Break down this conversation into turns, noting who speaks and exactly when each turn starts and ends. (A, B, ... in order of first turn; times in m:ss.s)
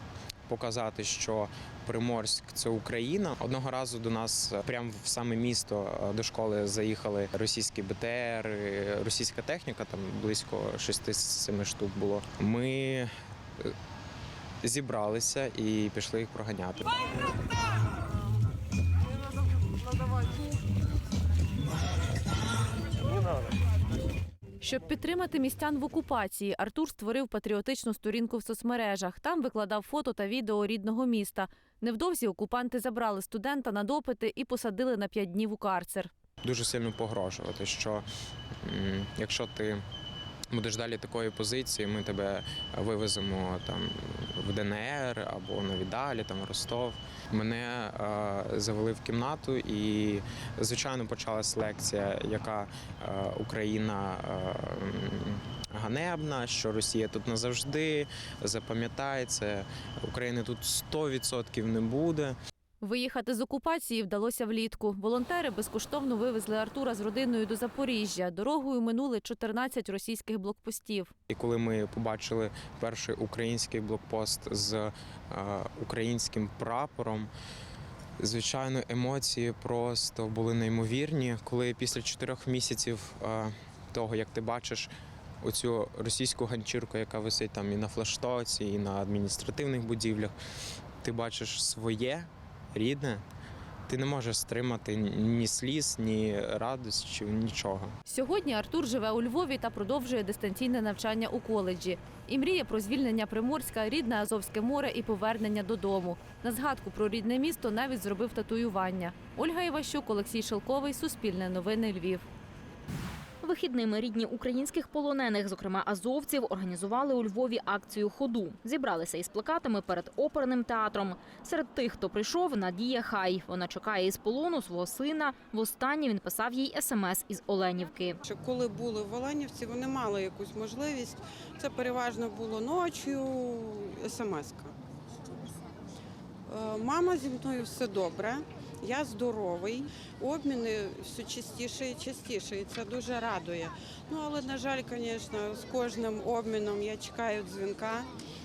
0:00.5-0:13.1 A
0:14.6-0:16.8 A
0:24.6-0:36.1 B
0:36.4-0:38.0 A
0:38.6-0:39.8 A
0:40.5-1:02.4 A
1:02.8-1:11.1 B
1:11.3-1:17.3 A
1:18.2-1:24.9 A
1:25.4-1:30.3 A
1:31.0-1:33.2 A
1:33.9-1:38.0 A
1:38.0-1:52.2 B
1:53.4-2:08.2 C
2:08.2-2:14.7 D
2:16.5-2:28.1 D